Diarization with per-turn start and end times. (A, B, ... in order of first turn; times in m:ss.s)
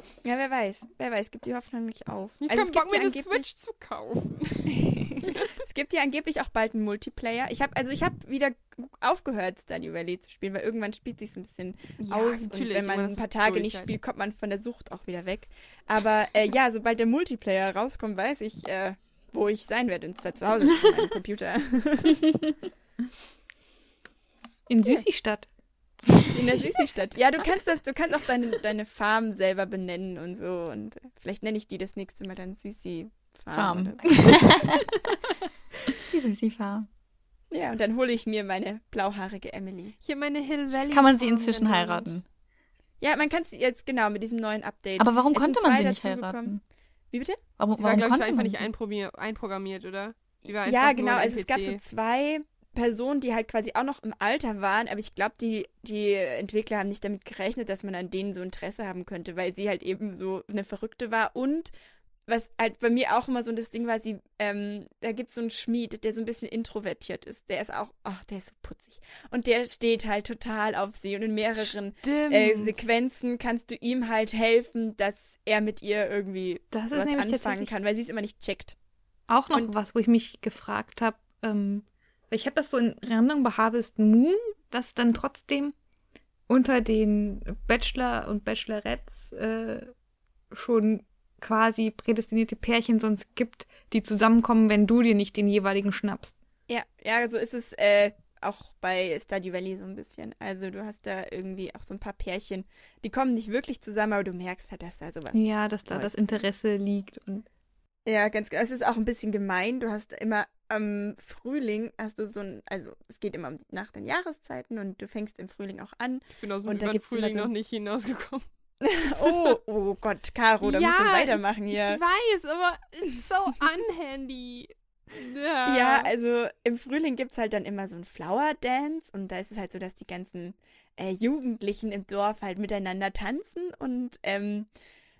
0:00.2-0:03.4 A
0:02.4-0:05.6 B
0:04.7-0:22.2 A
0:12.1-0:13.9 B
0:24.7-0:25.5 C
0:26.3-0:34.6 A
0:33.5-0:34.8 D
0:35.9-0:36.9 D
0:37.5-0:40.0 A
0:40.0-0:42.2 B
0:40.9-0:42.2 D
0:43.0-0:46.5 A
0:45.0-0:46.6 D
0:47.1-0:47.4 A
0:47.6-0:48.7 D
0:47.8-0:51.8 B
0:50.6-1:01.7 A
1:02.3-1:18.8 A
1:11.6-1:12.8 B
1:16.7-1:17.7 C
1:19.3-1:25.7 C
1:26.5-1:29.9 C
1:30.5-1:36.4 C
1:36.7-1:46.1 A
1:45.3-1:47.4 C
1:48.0-1:57.5 A
1:56.4-1:58.4 B
1:58.8-2:02.0 A
2:00.6-2:06.1 B
2:05.6-2:14.7 A